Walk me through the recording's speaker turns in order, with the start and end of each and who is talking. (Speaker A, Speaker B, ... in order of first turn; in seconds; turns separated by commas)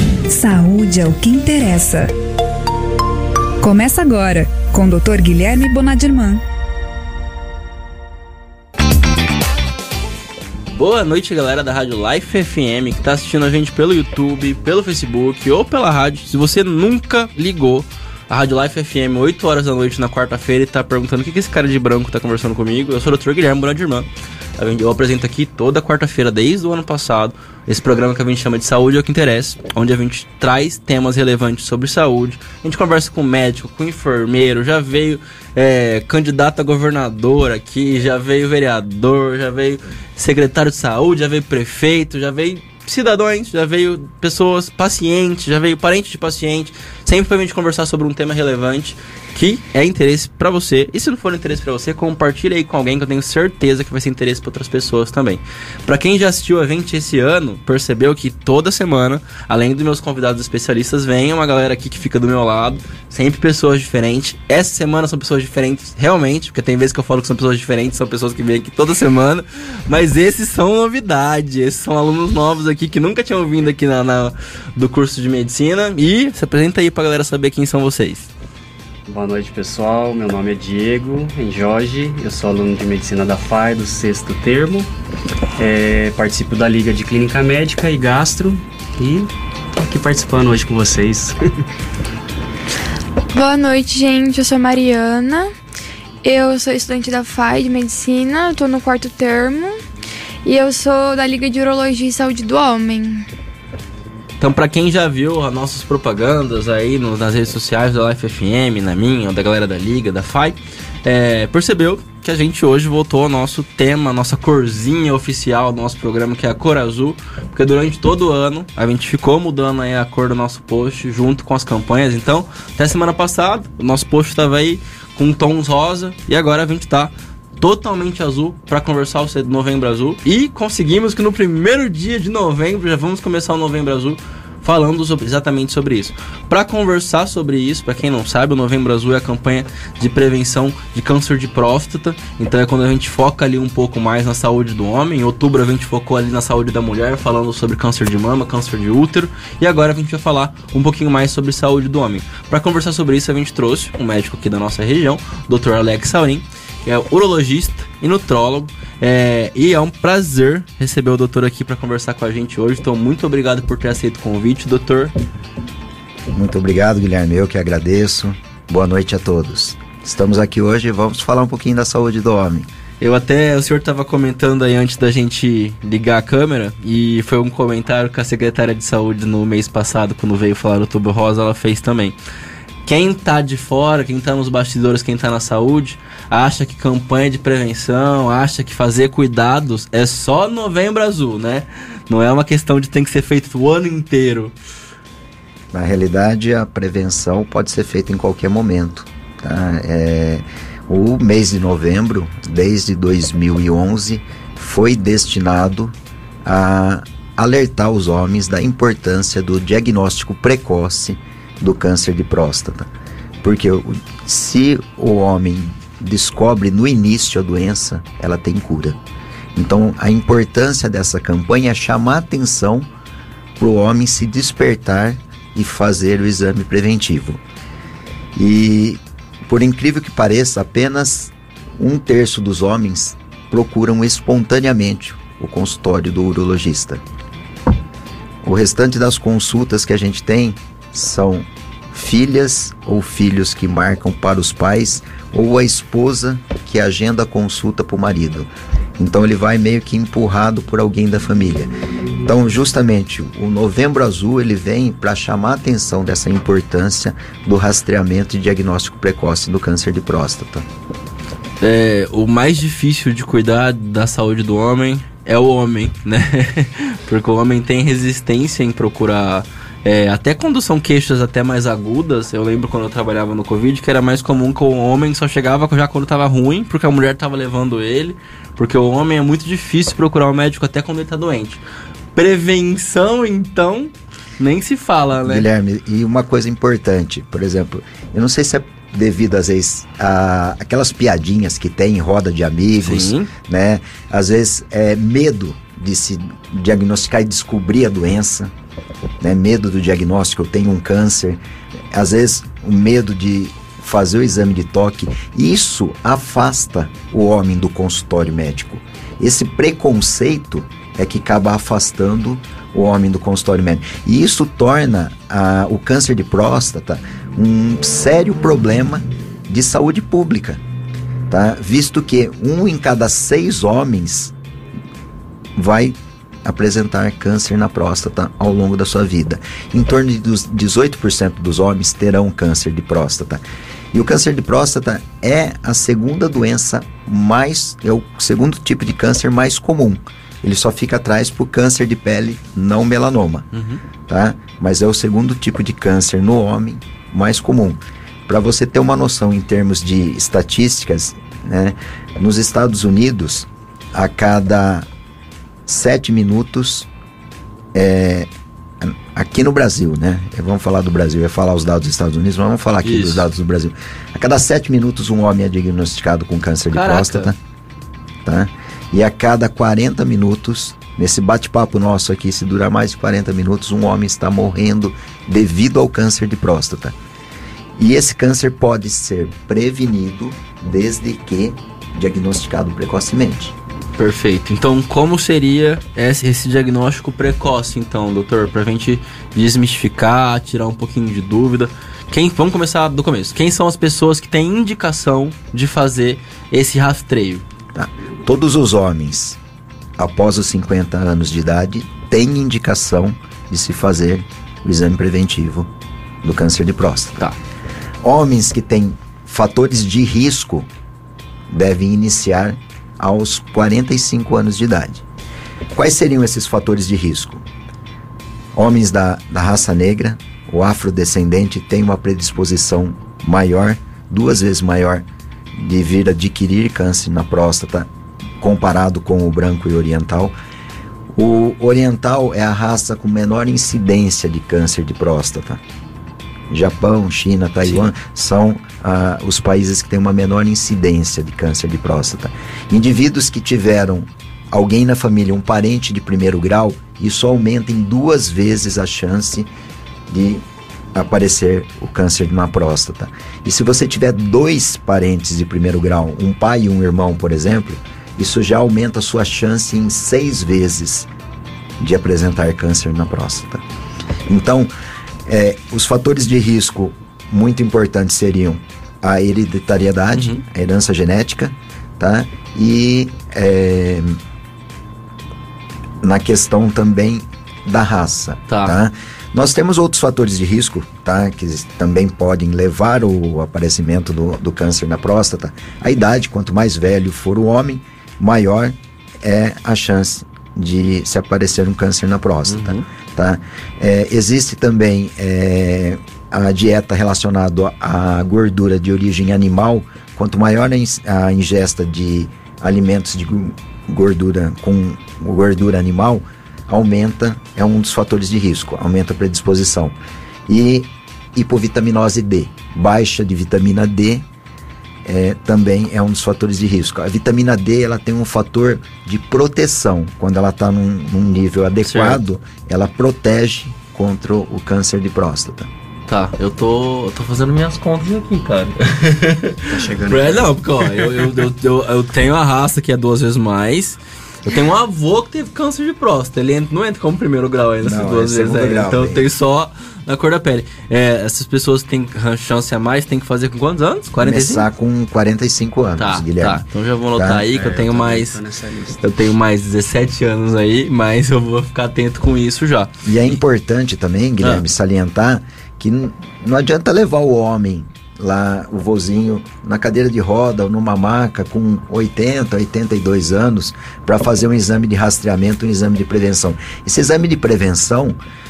Speaker A: 0.3-2.1, Speaker A: 3.6-6.4, Speaker B: 10.7-78.3, Speaker C: 79.1-84.9, Speaker C: 85.6-91.6, Speaker D: 93.3-95.5, Speaker D: 96.2-99.8, Speaker D: 100.4-103.2, Speaker B: 104.4-165.1, Speaker E: 166.3-172.7, Speaker B: 173.0-182.2, Speaker B: 182.8-194.5, Speaker E: 195.7-212.9, Speaker E: 213.4-219.0, Speaker E: 219.5-222.8, Speaker E: 223.6-227.4, Speaker E: 228.3-237.0, Speaker E: 238.4-260.7, Speaker B: 261.6-281.6, Speaker B: 282.1-285.5, Speaker E: 285.2-298.5, Speaker B: 292.8-293.3, Speaker E: 299.2-301.4, Speaker E: 301.9-320.6, Speaker E: 321.3-324.3, Speaker E: 325.6-343.5, Speaker B: 343.5-343.8, Speaker E: 344.1-354.9, Speaker E: 355.7-356.9, Speaker E: 357.7-367.4, Speaker B: 362.8-363.2, Speaker B: 366.7-367.3, Speaker E: 368.2-376.9, Speaker E: 377.8-383.5, Speaker B: 384.0-397.4, Speaker E: 397.7-399.4, Speaker E: 400.0-405.7, Speaker E: 406.2-407.3, Speaker E: 408.0-410.7, Speaker E: 411.5-415.0, Speaker E: 415.7-417.4, Speaker E: 418.5-427.9, Speaker E: 428.4-430.3, Speaker E: 431.1-435.6, Speaker E: 436.5-449.5, Speaker E: 450.1-461.1, Speaker E: 461.8-463.6, Speaker E: 464.3-464.7, Speaker E: 465.2-474.2, Speaker B: 470.1-470.4, Speaker E: 476.0-509.9, Speaker B: 478.5-478.8, Speaker B: 492.5-492.8, Speaker E: 510.5-514.2, Speaker E: 515.0-525.7, Speaker B: 521.8-522.2, Speaker B: 526.1-544.7, Speaker C: 529.7-531.4, Speaker E: 537.8-539.3, Speaker E: 544.2-547.5, Speaker B: 546.0-548.4, Speaker C: 547.5-549.0, Speaker B: 549.0-553.4, Speaker E: 553.0-568.1